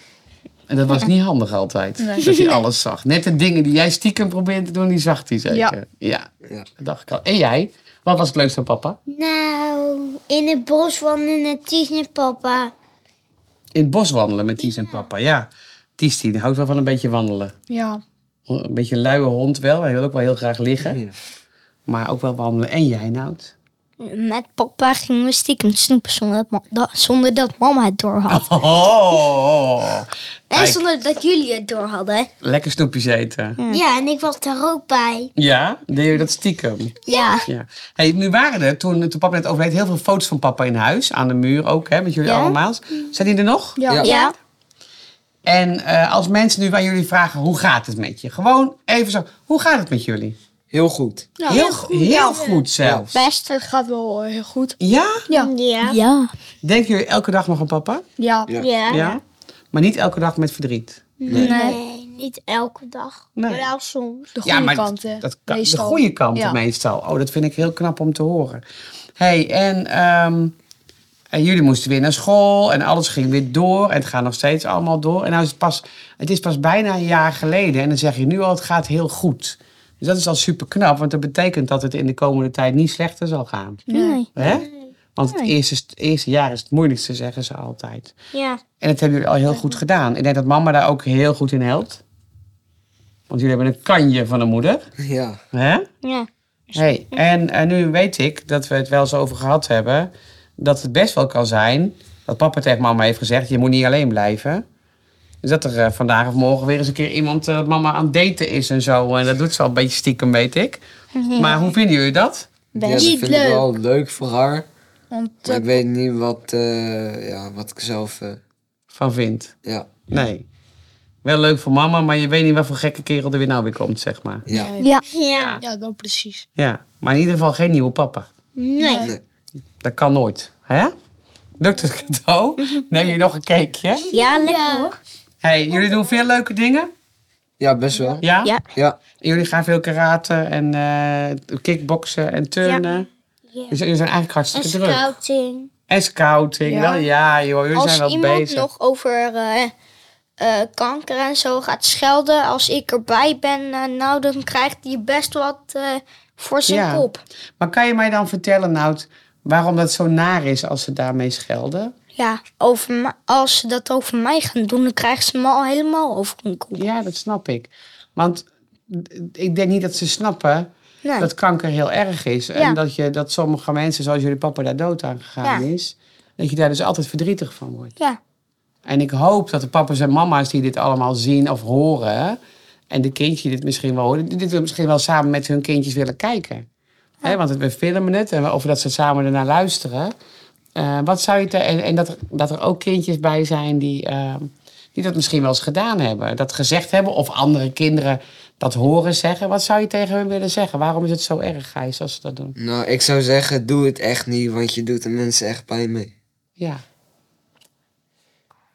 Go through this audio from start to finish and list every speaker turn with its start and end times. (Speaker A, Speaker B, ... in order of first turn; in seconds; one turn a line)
Speaker A: 0.7-9.0
Speaker B: 2.0-2.3
Speaker C: 2.2-2.6
Speaker B: 5.5-5.8
Speaker D: 9.1-12.7
Speaker A: 13.7-17.5
Speaker B: 17.7-18.0
Speaker A: 18.5-21.0
Speaker E: 20.9-21.1
Speaker A: 21.9-23.5
Speaker C: 24.0-28.5
Speaker A: 28.3-30.8
Speaker C: 30.5-32.3
Speaker A: 32.4-33.6
Speaker C: 33.6-33.8
Speaker D: 33.7-35.3
Speaker A: 35.4-37.0
Speaker C: 37.1-37.5
Speaker A: 37.5-43.9
Speaker C: 42.2-42.6
Speaker B: 43.8-44.1
Speaker C: 44.0-44.4
Speaker A: 45.5-50.4
Speaker E: 50.7-51.4
Speaker B: 51.4-52.6
Speaker A: 51.5-53.1
Speaker C: 51.5-51.8
Speaker E: 52.8-53.1
Speaker C: 53.1-53.5
Speaker B: 53.5-54.8
Speaker A: 54.8-55.2
Speaker D: 55.3-56.0
Speaker C: 55.8-56.3
Speaker A: 56.6-58.0
Speaker B: 58.2-59.0
Speaker D: 58.6-59.1
Speaker A: 58.9-61.1
Speaker D: 61.2-64.3
Speaker C: 61.3-61.8
Speaker E: 61.3-61.5
Speaker B: 61.4-61.8
Speaker A: 63.4-63.7
Speaker B: 64.4-66.6
Speaker A: 64.4-68.6
Speaker A: 69.2-70.5
Speaker A: 71.3-83.8
Speaker B: 83.9-84.2
Speaker C: 83.9-84.3
Speaker A: 84.3-88.1
Speaker D: 84.4-84.7
Speaker C: 85.2-85.5
Speaker A: 88.8-92.0
Speaker A: 93.3-94.9
Speaker E: 95.0-95.4
Speaker A: 95.5-95.9
Speaker C: 96.0-97.2
Speaker A: 96.7-104.7
Speaker A: 105.4-110.8
Speaker C: 111.2-111.6
Speaker A: 111.3-112.5
Speaker C: 112.8-113.1
Speaker E: 112.8-114.7
Speaker D: 112.9-113.7
Speaker B: 115.1-115.8
Speaker E: 115.5-118.4
Speaker A: 118.9-119.5
Speaker E: 119.7-120.0
Speaker A: 120.1-120.5
Speaker A: 121.2-124.5
Speaker E: 124.5-124.7
Speaker B: 124.5-124.9
Speaker D: 124.8-125.6
Speaker A: 125.3-125.6
Speaker B: 125.6-126.5
Speaker A: 126.6-128.3
Speaker D: 128.6-129.1
Speaker B: 128.8-129.1
Speaker A: 129.8-130.9
Speaker A: 131.6-134.1
Speaker C: 134.1-135.0
Speaker D: 134.1-135.0
Speaker A: 135.4-136.9
Speaker E: 137.6-139.0
Speaker A: 138.2-138.6
Speaker A: 139.2-143.1
Speaker A: 143.7-145.1
Speaker D: 144.5-145.7
Speaker A: 145.9-148.7
Speaker B: 146.7-147.1
Speaker C: 147.7-149.7
Speaker C: 150.4-157.2
Speaker A: 156.7-157.1
Speaker A: 157.6-161.9
Speaker C: 162.2-166.9
Speaker A: 166.8-178.0
Speaker C: 171.0-171.3
Speaker A: 178.9-186.7
Speaker A: 187.2-190.2
Speaker A: 190.8-202.6
Speaker E: 202.6-206.1
Speaker A: 206.6-206.8